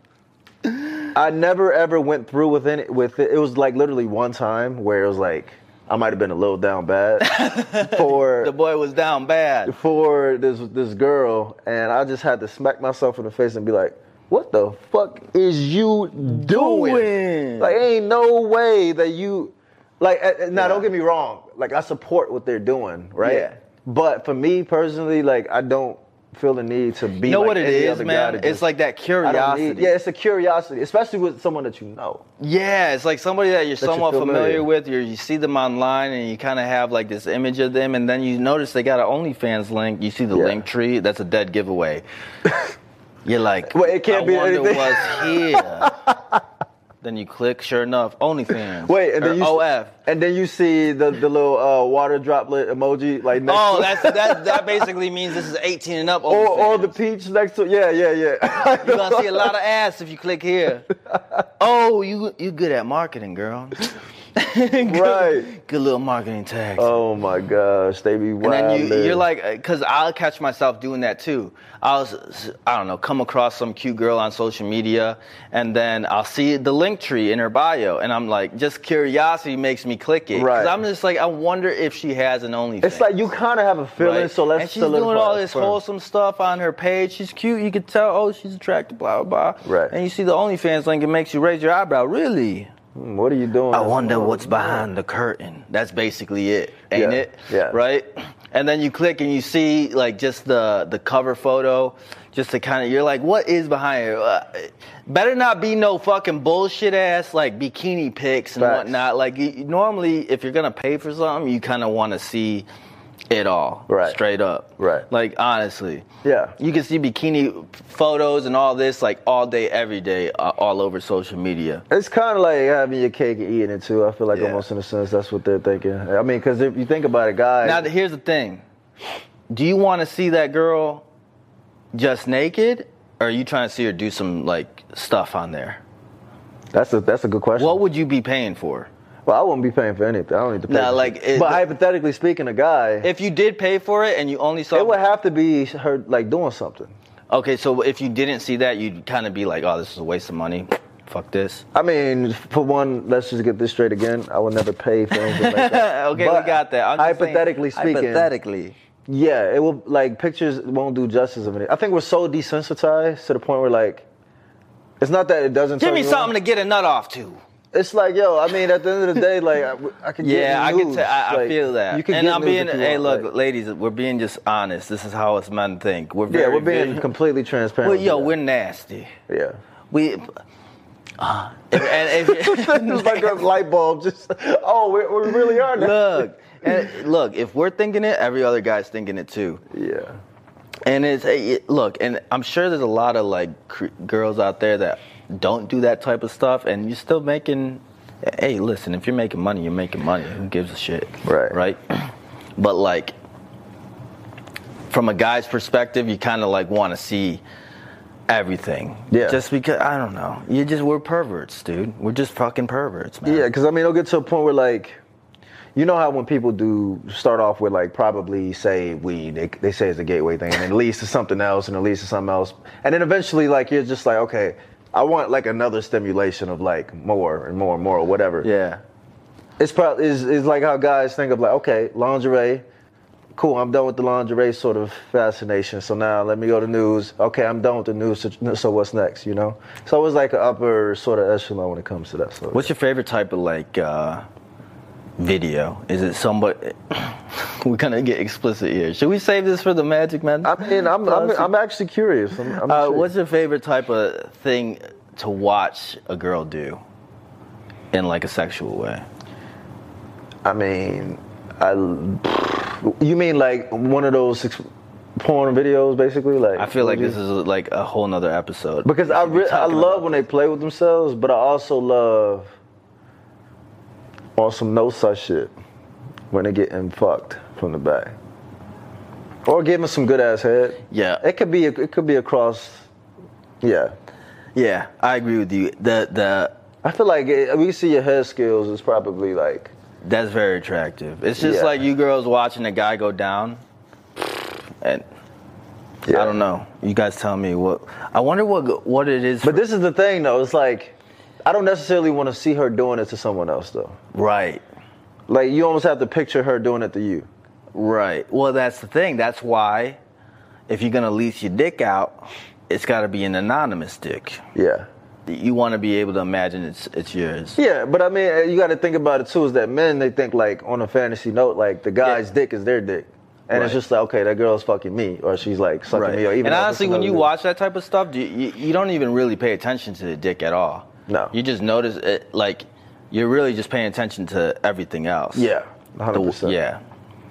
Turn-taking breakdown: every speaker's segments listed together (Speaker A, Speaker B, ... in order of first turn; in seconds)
Speaker A: 0.7-1.1, 7.2-9.7, 16.2-17.8, 20.5-20.8, 23.2-23.6, 27.2-29.9, 32.4-42.0, 43.2-45.9, 47.0-49.9, 53.4-57.0, 58.8-60.9, 61.6-67.0, 68.4-83.2, 84.0-92.7, 93.7-112.7, 113.3-116.0, 116.6-121.8, 124.3-124.6, 127.6-128.6, 129.5-131.0, 131.9-135.8, 137.6-138.9, 140.7-141.7, 143.0-145.0, 147.3-151.6, 155.1-158.7, 165.8-167.4, 170.2-177.1, 177.8-179.1, 179.9-180.4, 181.2-183.4, 185.6-189.6, 190.8-203.1, 204.9-207.4, 208.3-213.5, 228.4-228.8, 242.5-244.2, 245.2-251.5, 252.6-256.8, 257.9-259.1, 266.6-270.2, 280.9-281.2, 284.6-286.6, 290.0-293.6, 294.2-295.0, 296.1-299.6, 304.1-304.6, 307.7-310.0, 310.7-314.4, 315.3-317.6, 323.5-323.8, 325.9-335.5, 336.1-336.8
Speaker B: 1.1-8.5, 9.7-28.6, 29.2-32.2, 33.8-34.7, 40.3-40.6, 42.5-42.7, 43.7-46.4, 48.6-54.9, 56.3-59.5, 64.8-65.5, 66.8-69.2, 80.3-80.8, 82.8-85.8, 89.6-89.9, 92.9-94.9, 96.9-97.8, 108.6-109.0, 113.9-114.2, 114.8-115.1, 116.2-116.5, 121.9-127.9, 136.7-137.8, 139.2-143.1, 144.7-146.9, 151.7-158.3, 159.1-164.1, 165.0-166.3, 167.7-173.3, 176.3-178.3, 179.3-179.6, 181.7-186.9, 189.7-190.2, 201.2-201.6, 209.1-209.4, 213.2-215.0, 215.7-228.5, 229.6-232.6, 233.3-242.7, 250.4-253.1, 260.4-264.6, 265.2-267.2, 268.8-272.5, 274.4-275.5, 276.3-278.1, 279.4-282.9, 283.6-283.9, 286.8-289.7, 291.4-291.8, 296.1-296.4, 299.4-304.0, 305.3-307.3, 314.5-314.9, 317.6-327.3, 331.1-331.3, 335.3-336.6